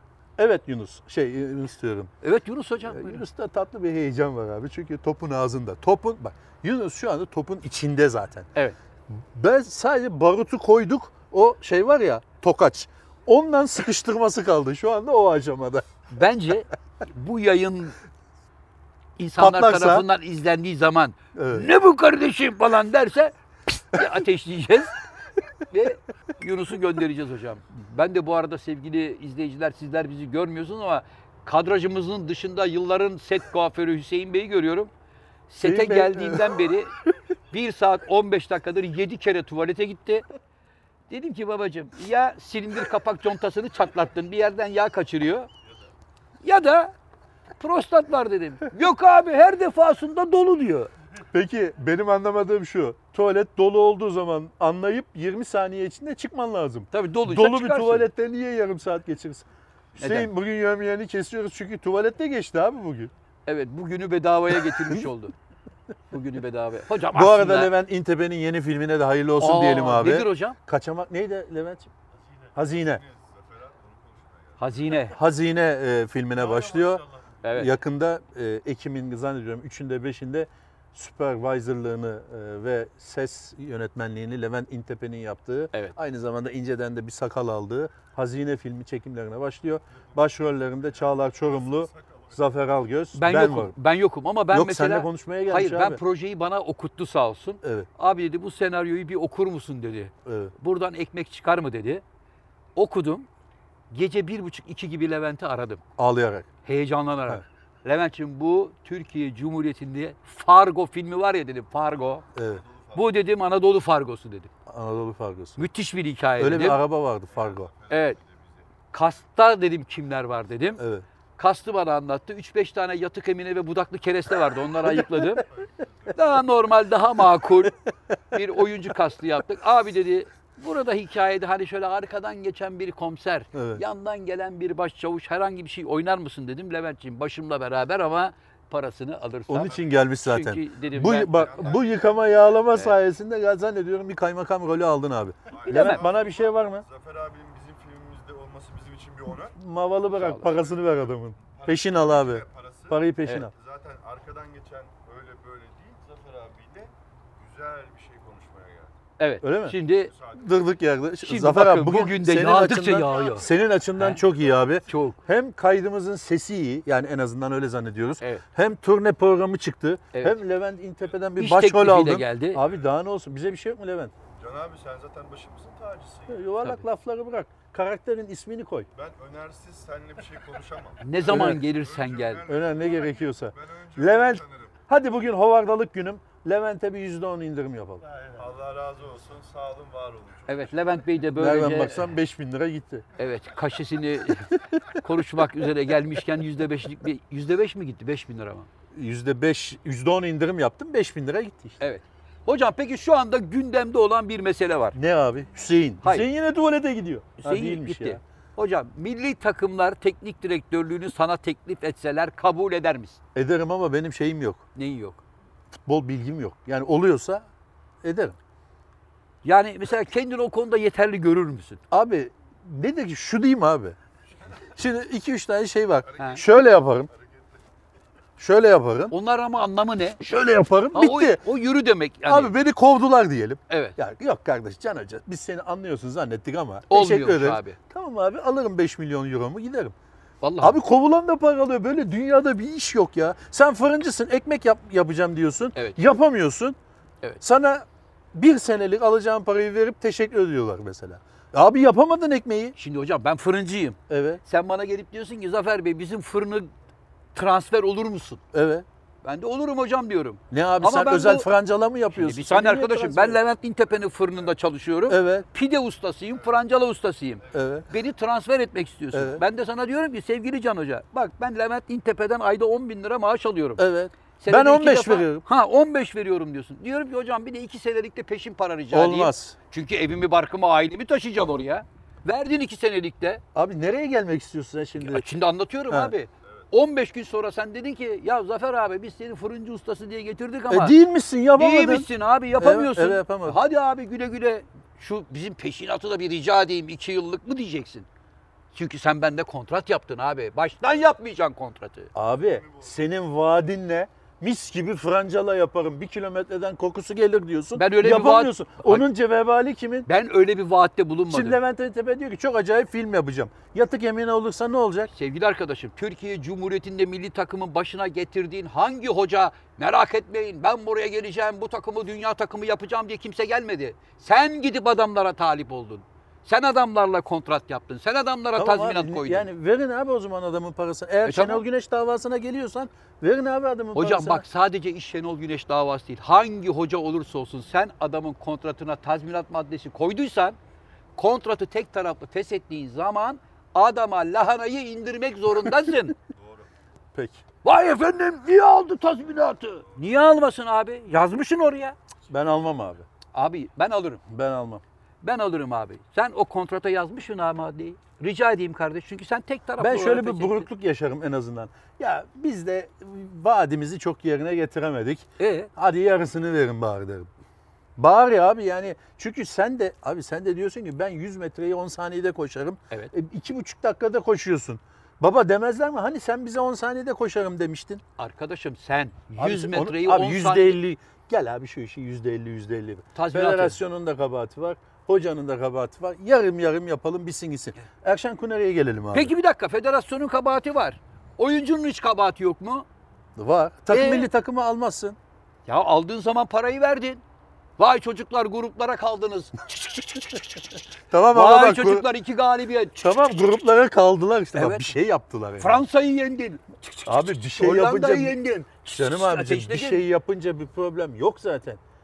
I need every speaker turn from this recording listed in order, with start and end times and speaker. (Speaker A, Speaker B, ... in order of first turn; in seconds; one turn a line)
Speaker A: 0.4-2.1
Speaker B: 2.2-3.2
Speaker A: 2.9-8.5
Speaker A: 9.1-15.8
Speaker B: 16.1-18.0
Speaker B: 19.2-24.9
Speaker A: 19.4-20.1
Speaker A: 21.4-21.7
Speaker B: 25.7-34.9
Speaker B: 35.5-40.2
Speaker A: 35.6-36.6
Speaker B: 41.1-45.5
Speaker B: 46.4-46.9
Speaker B: 47.6-50.9
Speaker A: 51.3-59.4
Speaker B: 56.9-58.1
Speaker B: 60.0-60.3
Speaker A: 60.0-63.1
Speaker B: 63.5-65.3
Speaker A: 64.6-65.0
Speaker B: 66.1-67.7
Speaker A: 67.1-71.9
Speaker B: 69.4-70.6
Speaker C: 72.3-75.0
Speaker A: 72.5-73.0
Speaker B: 74.6-75.2
Speaker A: 75.0-93.7
Speaker C: 76.4-77.5
Speaker B: 77.4-77.7
Speaker C: 91.3-92.4
Speaker B: 93.1-102.0
Speaker A: 94.5-96.0
Speaker A: 97.6-97.9
Speaker A: 100.2-100.5
Speaker B: 102.8-103.3
Speaker B: 103.9-105.8
Speaker A: 106.0-106.5
Speaker B: 106.6-112.2
Speaker A: 112.3-112.6
Speaker C: 112.3-113.1
Speaker B: 112.9-114.5
Speaker A: 114.7-115.6
Speaker B: 115.6-116.8
Speaker A: 116.4-117.7
Speaker C: 117.3-118.6
Speaker B: 117.9-118.2
Speaker B: 118.9-120.8
Speaker A: 120.8-121.0
Speaker B: 121.4-125.5
Speaker A: 124.8-125.4
Speaker C: 125.5-126.2
Speaker B: 126.1-127.8
Speaker B: 128.3-141.7
Speaker A: 133.5-133.8
Speaker A: 139.5-146.8
Speaker C: 141.2-142.5
Speaker C: 145.5-149.6
Speaker B: 145.7-146.0
Speaker A: 149.5-153.5
Speaker B: 150.2-150.5
Speaker C: 151.5-159.0
Speaker B: 159.2-160.1
Speaker A: 159.4-159.8
Speaker C: 159.9-160.7
Speaker A: 160.3-174.1
Speaker B: 161.2-164.2
Speaker C: 163.1-163.6
Speaker B: 164.8-165.2
Speaker B: 171.4-172.6
Speaker C: 174.3-176.4
Speaker A: 176.3-178.9
Speaker C: 178.9-184.8
Speaker B: 181.0-182.4
Speaker A: 181.3-181.6
Speaker A: 182.4-188.0
Speaker C: 188.3-191.0
Speaker B: 190.5-192.1
Speaker A: 191.3-193.1
Speaker B: 193.2-198.7
Speaker A: 198.9-201.8
Speaker B: 201.8-205.0
Speaker A: 204.9-208.2
Speaker B: 207.4-213.2
Speaker A: 213.3-214.6
Speaker B: 214.7-215.2
Speaker A: 215.7-217.5
Speaker A: 218.0-218.4
Speaker B: 219.4-221.8
Speaker A: 221.9-224.0
Speaker A: 224.7-227.1
Speaker C: 226.1-226.6
Speaker B: 226.2-226.4
Speaker C: 227.1-227.6
Speaker A: 228.4-229.1
Speaker B: 229.1-230.2
Speaker A: 230.2-231.4
Speaker B: 230.9-232.5
Speaker A: 232.3-239.9
Speaker B: 233.7-234.0
Speaker B: 236.9-237.8
Speaker B: 240.4-240.8
Speaker A: 240.6-246.8
Speaker B: 245.7-246.0
Speaker A: 247.4-252.8
Speaker B: 252.8-256.7
Speaker A: 254.1-254.4
Speaker B: 257.3-258.4
Speaker A: 258.5-258.9
Speaker B: 259.2-261.5
Speaker A: 260.5-263.4
Speaker B: 262.1-273.8
Speaker A: 265.1-265.5
Speaker A: 267.5-267.9
Speaker A: 269.1-269.4
Speaker A: 273.8-275.4
Speaker B: 274.4-283.4
Speaker A: 278.9-279.6
Speaker A: 283.5-285.3
Speaker B: 285.0-291.0
Speaker A: 290.7-293.6
Speaker B: 291.6-298.1
Speaker B: 298.7-302.1
Speaker A: 302.1-310.1
Speaker C: 302.5-302.9
Speaker B: 307.7-309.0
Speaker B: 310.1-311.6
Speaker A: 311.3-315.1
Speaker B: 315.1-329.5
Speaker A: 328.6-334.4
Speaker B: 331.2-331.6
Speaker B: 333.9-340.6
Speaker B: 341.1-346.1
Speaker C: 346.4-346.7
Speaker A: 347.1-347.4
Speaker B: 347.6-352.0
Speaker A: 352.3-353.1
Speaker B: 353.3-354.2
Speaker A: 354.3-354.8
Speaker B: 355.2-360.6
Speaker A: 359.8-367.3
Speaker B: 365.4-365.7
Speaker A: 368.0-378.0
Speaker B: 378.2-380.8
Speaker A: 379.4-389.3
Speaker B: 383.1-383.8
Speaker B: 389.1-392.9
Speaker A: 393.4-395.2
Speaker B: 393.9-394.3
Speaker B: 395.7-397.2
Speaker B: 397.8-400.6
Speaker A: 401.1-402.1
Speaker B: 401.3-403.0
Speaker A: 403.0-405.8
Speaker B: 404.5-404.9
Speaker B: 405.6-410.0
Speaker A: 407.1-408.4
Speaker A: 408.9-411.8